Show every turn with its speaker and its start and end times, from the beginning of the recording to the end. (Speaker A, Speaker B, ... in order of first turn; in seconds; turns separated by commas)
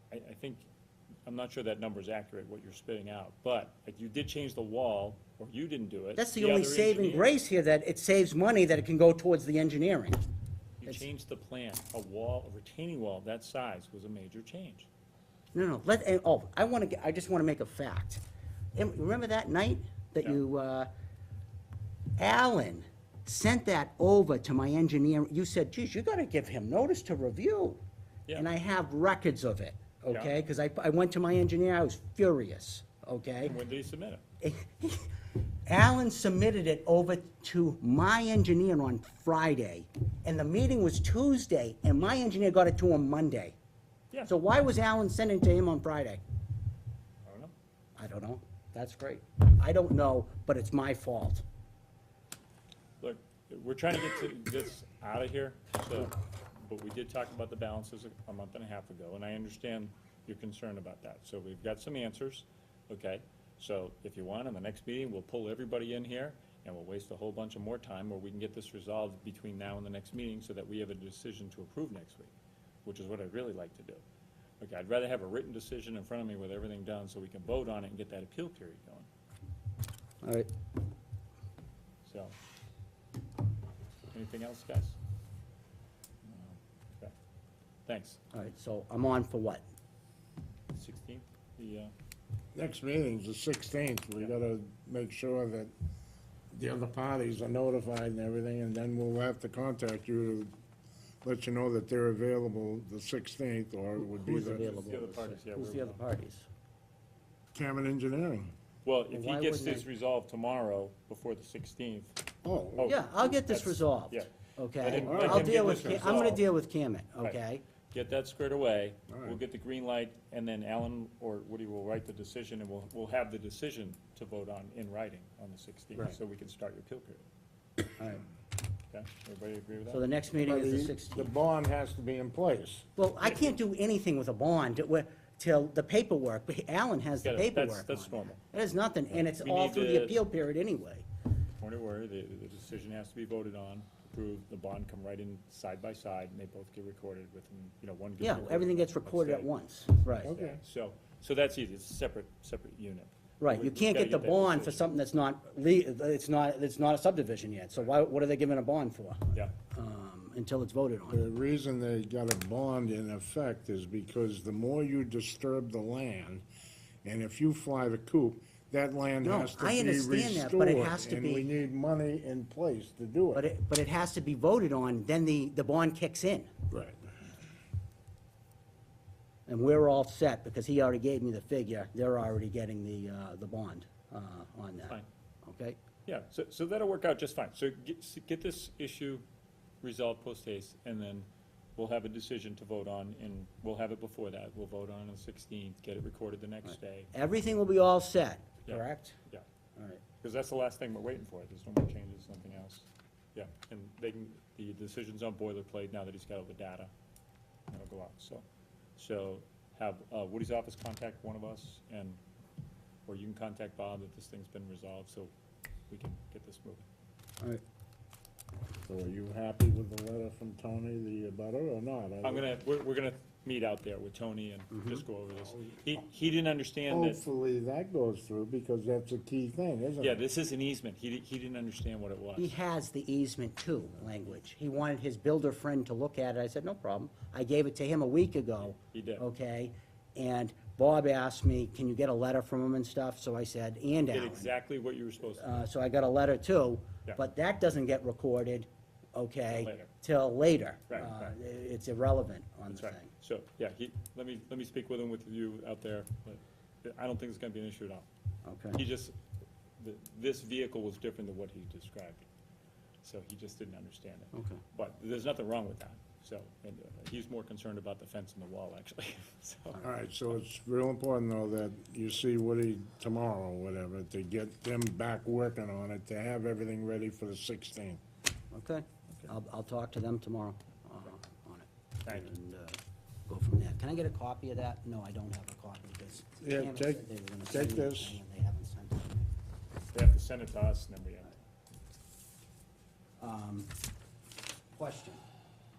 Speaker A: 0.1-0.7, Speaker A: 1.3-7.3, Speaker B: 6.2-10.2, Speaker A: 10.8-14.9, Speaker B: 15.5-18.2, Speaker B: 18.8-20.9, Speaker B: 22.2-27.8, Speaker B: 28.4-33.6, Speaker A: 30.1-30.4, Speaker A: 33.4-34.2, Speaker B: 34.4-35.1, Speaker B: 35.7-43.5, Speaker B: 44.3-46.2, Speaker A: 47.2-47.5, Speaker B: 48.0-51.4, Speaker A: 53.0-72.3, Speaker A: 72.8-74.0, Speaker A: 74.6-79.1, Speaker B: 80.2-80.5, Speaker A: 82.0-82.3, Speaker A: 84.1-85.0, Speaker A: 86.2-87.1, Speaker A: 87.9-88.2, Speaker B: 88.3-89.6, Speaker A: 90.7-91.9, Speaker C: 92.5-95.7, Speaker C: 96.5-100.5, Speaker C: 101.2-104.8, Speaker B: 104.1-106.5, Speaker A: 104.5-106.0, Speaker C: 107.5-108.5, Speaker A: 108.8-112.2, Speaker B: 109.1-109.9, Speaker C: 112.4-113.0, Speaker A: 112.8-116.5, Speaker B: 112.9-117.6, Speaker C: 115.0-116.4, Speaker A: 117.9-127.2, Speaker C: 119.1-119.4, Speaker B: 128.0-128.2, Speaker A: 128.9-130.0, Speaker B: 129.9-131.3, Speaker C: 130.4-132.8, Speaker B: 133.0-141.1, Speaker A: 133.2-133.6, Speaker A: 137.2-138.4, Speaker A: 139.1-140.2, Speaker A: 141.6-149.5, Speaker B: 148.2-150.3, Speaker A: 150.2-154.9, Speaker C: 150.2-150.6, Speaker B: 153.4-161.2, Speaker C: 161.1-166.4, Speaker C: 167.0-173.4, Speaker B: 169.2-171.5, Speaker B: 173.3-176.5, Speaker C: 176.7-177.0, Speaker B: 179.5-185.8, Speaker A: 186.1-189.2, Speaker A: 189.8-197.1, Speaker B: 197.1-199.2, Speaker A: 198.7-199.4, Speaker B: 199.8-200.0, Speaker A: 200.2-206.9, Speaker A: 207.7-208.4, Speaker A: 209.0-212.2, Speaker A: 213.1-215.3, Speaker A: 215.9-216.8, Speaker C: 218.9-222.4, Speaker A: 222.2-227.2, Speaker B: 224.7-225.0, Speaker C: 226.9-230.2, Speaker A: 230.0-232.5, Speaker B: 232.4-244.5, Speaker A: 238.7-239.2, Speaker A: 244.1-245.7, Speaker B: 245.4-253.1, Speaker A: 249.5-249.9, Speaker A: 250.9-251.3, Speaker A: 252.7-258.1, Speaker B: 258.4-258.8, Speaker A: 258.7-259.2, Speaker A: 259.8-262.2, Speaker A: 263.0-269.8, Speaker B: 264.3-264.6, Speaker C: 269.8-278.0, Speaker B: 278.5-289.3, Speaker A: 282.1-282.3, Speaker C: 286.4-288.2, Speaker A: 289.9-291.4, Speaker B: 293.2-293.7, Speaker B: 294.8-295.2